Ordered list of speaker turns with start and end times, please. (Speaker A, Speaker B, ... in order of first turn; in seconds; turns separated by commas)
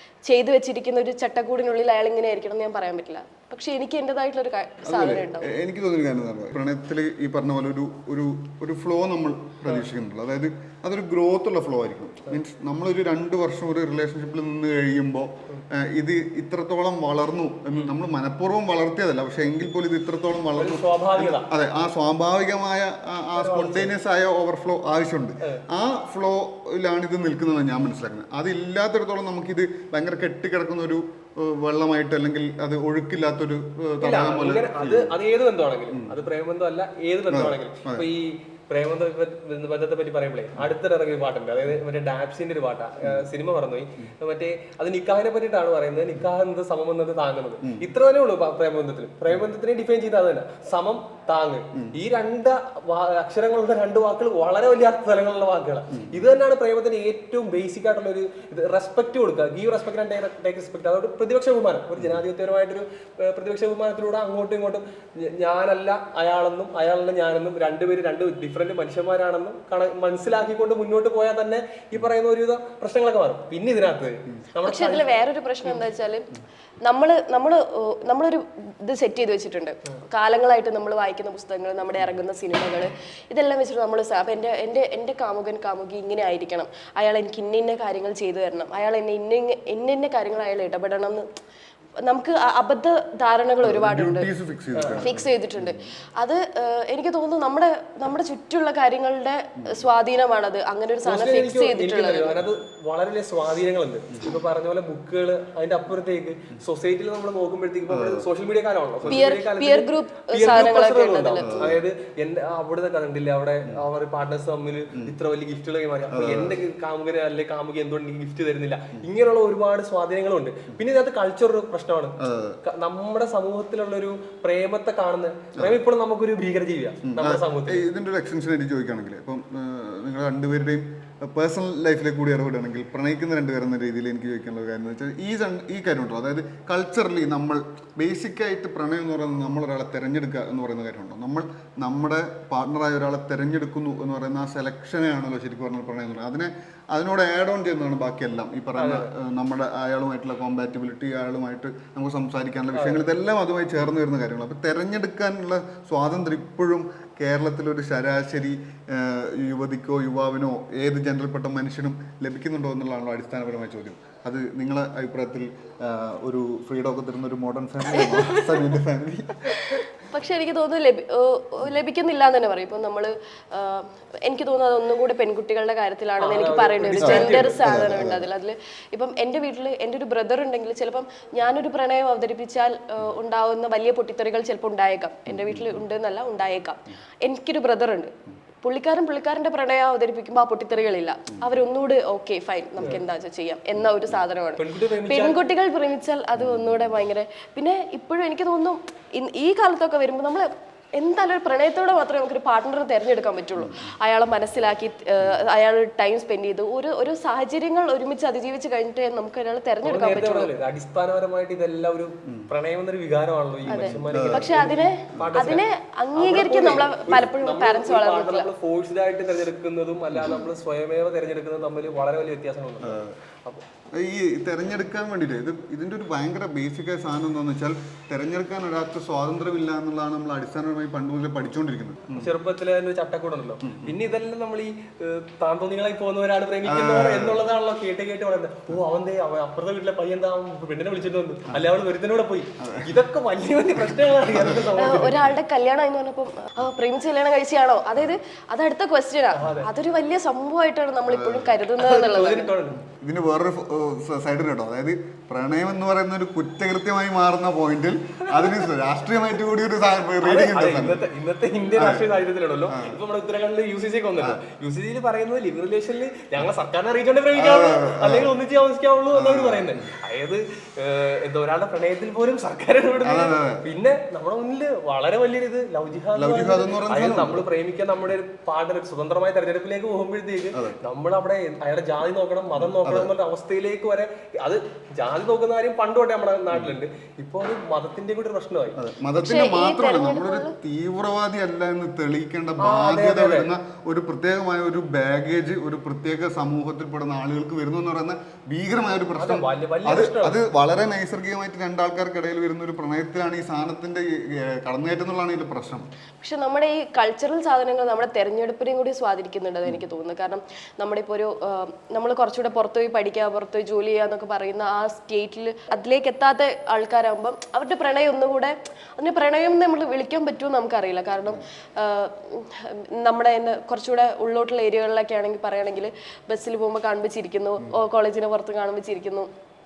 Speaker A: 0.2-5.5, Speaker B: 4.8-35.1, Speaker C: 20.6-21.5, Speaker C: 23.4-23.9, Speaker C: 34.0-75.8, Speaker B: 37.3-38.1, Speaker A: 74.6-76.3, Speaker A: 76.8-91.3, Speaker A: 92.0-94.3, Speaker B: 93.6-95.8, Speaker C: 94.7-95.1, Speaker A: 94.9-102.4, Speaker C: 101.0-127.8, Speaker B: 107.9-108.2, Speaker A: 109.1-111.7, Speaker B: 111.5-111.8, Speaker B: 116.1-116.6, Speaker B: 122.2-122.6, Speaker B: 127.0-169.8, Speaker C: 148.8-149.1, Speaker C: 152.7-153.0, Speaker C: 167.9-168.7, Speaker A: 169.6-210.5, Speaker C: 176.2-177.6, Speaker B: 177.0-178.2, Speaker C: 194.6-195.4, Speaker C: 209.8-223.6, Speaker B: 213.7-214.5, Speaker A: 213.7-218.5, Speaker B: 222.8-223.1, Speaker B: 223.9-232.3, Speaker C: 232.1-245.2, Speaker B: 233.6-234.0, Speaker B: 236.6-237.4, Speaker B: 242.6-242.9, Speaker B: 244.3-244.6, Speaker A: 244.7-252.5, Speaker C: 249.3-249.7, Speaker B: 251.1-251.5, Speaker C: 251.8-252.8, Speaker B: 252.8-261.1, Speaker C: 258.4-258.7, Speaker C: 260.2-288.8, Speaker B: 261.7-262.1, Speaker B: 262.7-263.0, Speaker B: 267.3-268.3, Speaker B: 269.1-269.9, Speaker B: 273.0-273.7, Speaker B: 276.1-277.4, Speaker B: 280.5-280.8, Speaker B: 282.6-283.1, Speaker B: 288.8-305.9, Speaker A: 289.1-290.6, Speaker C: 292.6-293.5, Speaker C: 299.1-300.4, Speaker A: 306.2-329.3